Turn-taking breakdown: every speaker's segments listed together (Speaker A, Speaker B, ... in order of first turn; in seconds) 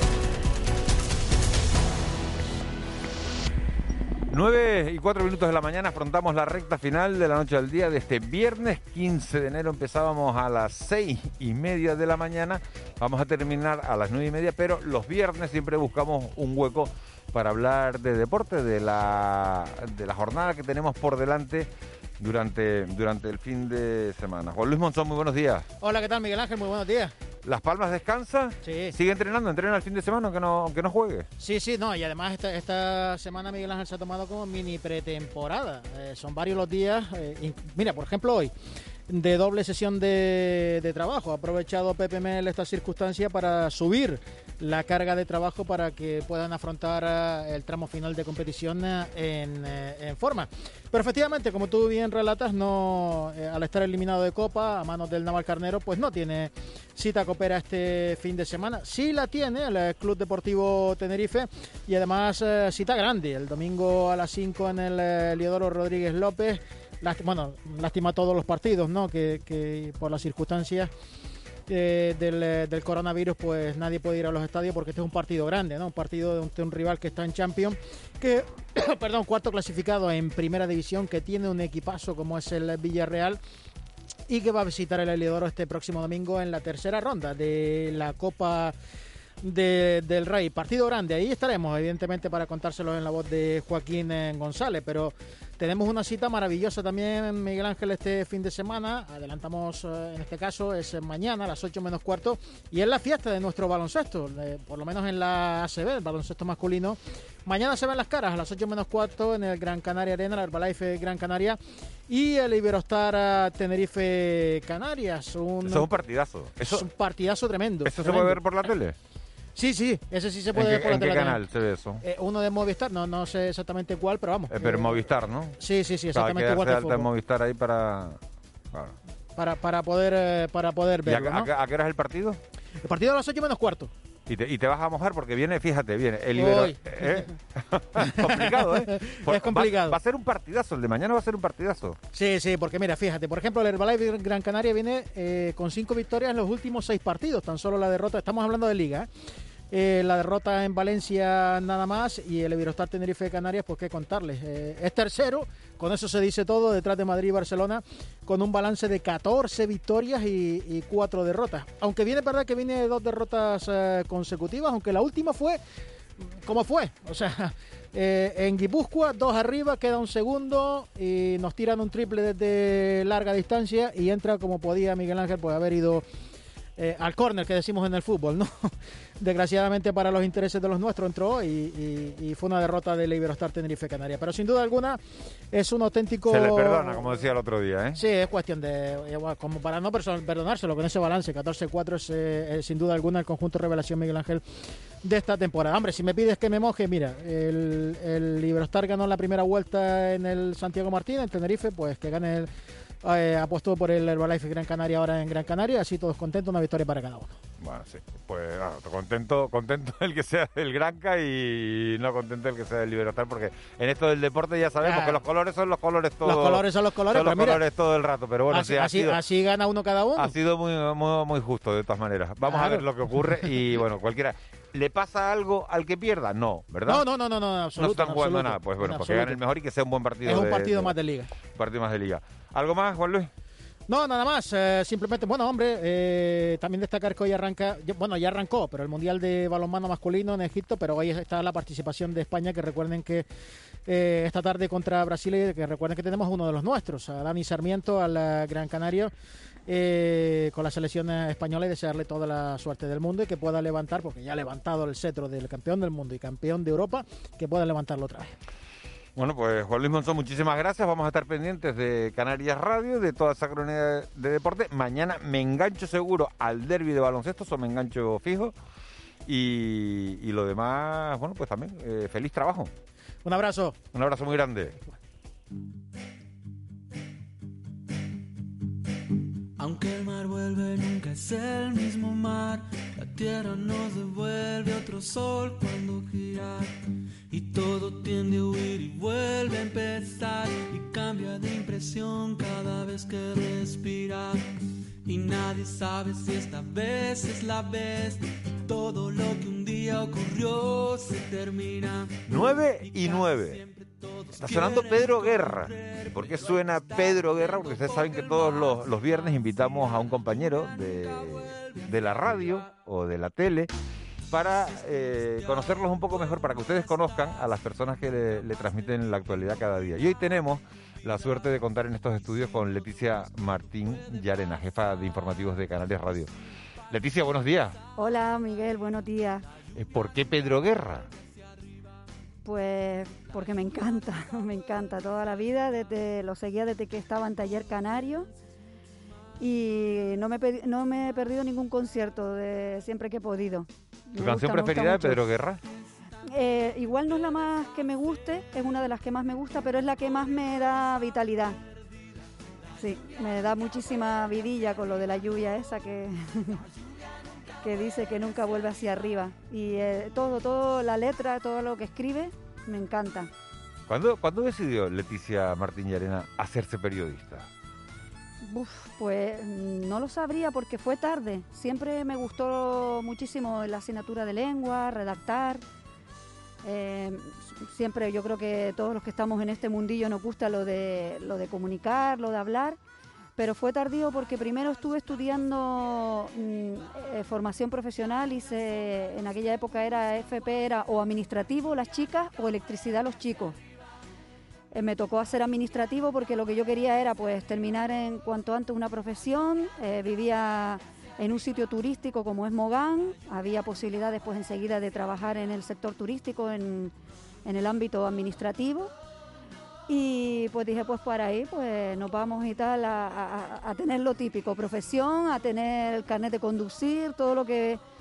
Speaker A: 4.3-21.7, 22.2-25.7, 27.4-31.3, 115.6-116.9, 117.8-119.0, 120.5-122.0, 124.5-125.6, 126.1-128.2, 131.0-132.4, 134.3-142.0, 186.3-188.0, 207.6-219.2, 220.2-227.1, 227.8-230.9, 231.5-233.3, 259.1-268.5, 269.2-272.7, 273.9-274.8, 302.3-303.6, 304.4-313.7, 314.3-326.3, 326.9-327.8, 329.7-331.1, 344.1-345.6, 363.9-367.5
Speaker B: 25.8-27.1, 28.6-28.9, 31.4-38.5, 39.1-70.9, 71.7-83.4, 84.3-88.7, 89.4-115.9, 116.6-118.4, 119.5-121.4, 122.0-125.0, 125.6-127.1, 129.3-131.5, 132.8-133.9, 136.3-137.2, 138.0-140.0, 142.1-149.1, 149.7-165.6, 166.3-176.0, 176.8-185.0, 185.5-187.1, 187.9-194.4, 195.0-202.5, 203.0-207.3, 214.8-215.2, 216.2-217.6, 218.5-220.3, 222.4-223.5, 226.9-229.4, 230.2-231.3, 233.9-243.2, 243.8-249.1, 249.7-258.3, 273.2-273.8
Speaker C: 279.6-286.7, 287.3-294.4, 295.1-306.3
Speaker D: 328.0-329.4, 332.4-338.3, 339.4-345.2, 346.3-351.6, 352.8-356.6, 357.6-363.3, 368.4-375.6, 376.6-382.8, 383.4-393.6, 394.7-406.9, 407.4-408.9, 409.9-417.8